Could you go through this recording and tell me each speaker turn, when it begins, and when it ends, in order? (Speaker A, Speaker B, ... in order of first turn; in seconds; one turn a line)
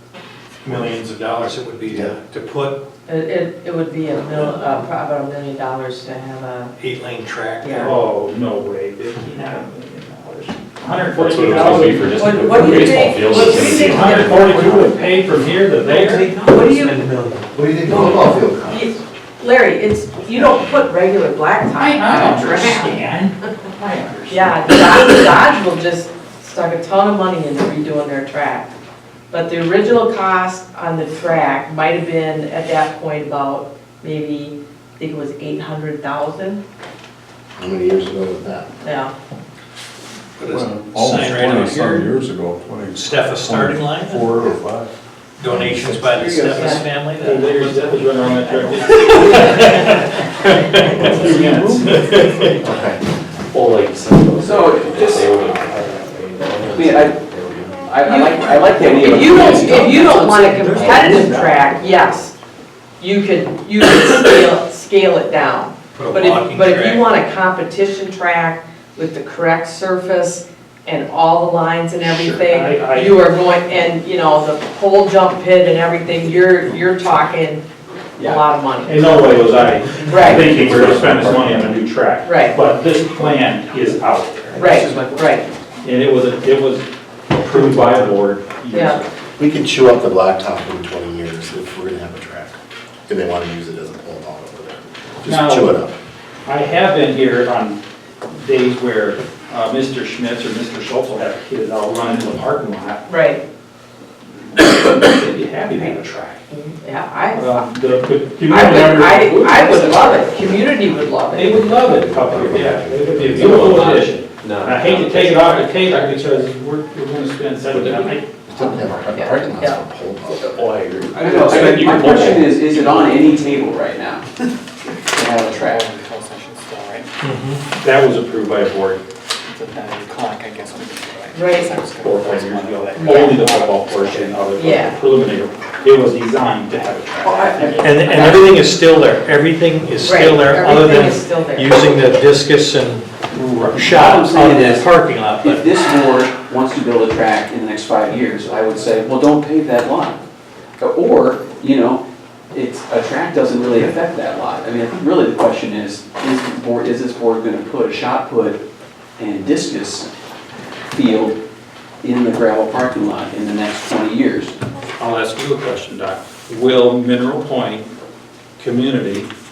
Speaker A: 0.6-2.8
Speaker B: 3.1-6.7
Speaker A: 6.8-7.9
Speaker B: 7.6-7.9
Speaker C: 7.8-16.3
Speaker D: 11.1-14.8
Speaker B: 12.1-15.1
Speaker A: 15.8-17.5
Speaker B: 16.3-17.0
Speaker E: 17.5-18.9
Speaker B: 17.9-23.0
Speaker C: 21.7-24.9
Speaker B: 24.3-28.7
Speaker B: 29.3-36.6
Speaker E: 37.6-38.7
Speaker B: 38.8-39.1
Speaker A: 40.4-42.1
Speaker F: 40.4-44.9
Speaker A: 42.9-44.3
Speaker E: 44.3-44.6
Speaker A: 45.4-48.0
Speaker F: 45.5-45.9
Speaker B: 46.5-46.8
Speaker C: 47.2-50.1
Speaker A: 48.9-49.8
Speaker C: 50.8-52.5
Speaker E: 52.6-53.0
Speaker D: 53.5-57.7
Speaker G: 54.4-55.4
Speaker G: 56.6-57.2
Speaker G: 57.8-61.2
Speaker B: 58.0-62.3
Speaker D: 59.3-59.7
Speaker B: 63.0-77.6
Speaker A: 65.9-67.1
Speaker C: 72.3-73.2
Speaker B: 78.2-79.1
Speaker C: 78.8-84.8
Speaker B: 80.0-80.5
Speaker E: 80.3-81.7
Speaker B: 82.2-82.6
Speaker B: 84.5-85.5
Speaker G: 84.5-85.3
Speaker C: 85.8-89.1
Speaker B: 88.7-89.0
Speaker E: 89.4-92.5
Speaker E: 93.1-95.9
Speaker C: 95.2-95.7
Speaker C: 96.5-103.0
Speaker B: 103.1-103.4
Speaker C: 104.5-106.4
Speaker B: 106.5-107.7
Speaker C: 107.3-109.5
Speaker B: 108.4-111.6
Speaker G: 109.0-110.4
Speaker C: 111.3-118.3
Speaker E: 111.3-113.8
Speaker D: 113.3-116.1
Speaker G: 117.8-118.0
Speaker E: 118.5-120.5
Speaker B: 119.1-119.8
Speaker D: 120.5-122.8
Speaker G: 121.1-124.3
Speaker G: 125.1-125.9
Speaker H: 125.5-127.1
Speaker A: 127.2-127.6
Speaker C: 127.7-129.0
Speaker H: 129.5-134.4
Speaker B: 131.3-131.8
Speaker C: 132.0-138.4
Speaker B: 133.0-133.4
Speaker B: 134.5-134.9
Speaker G: 137.2-138.5
Speaker A: 137.8-145.6
Speaker B: 140.0-141.9
Speaker C: 143.3-143.8
Speaker G: 143.8-144.9
Speaker G: 145.4-150.2
Speaker G: 150.8-158.6
Speaker G: 159.2-160.1
Speaker G: 160.9-161.4
Speaker G: 162.0-164.6
Speaker C: 165.0-167.9
Speaker C: 168.6-169.3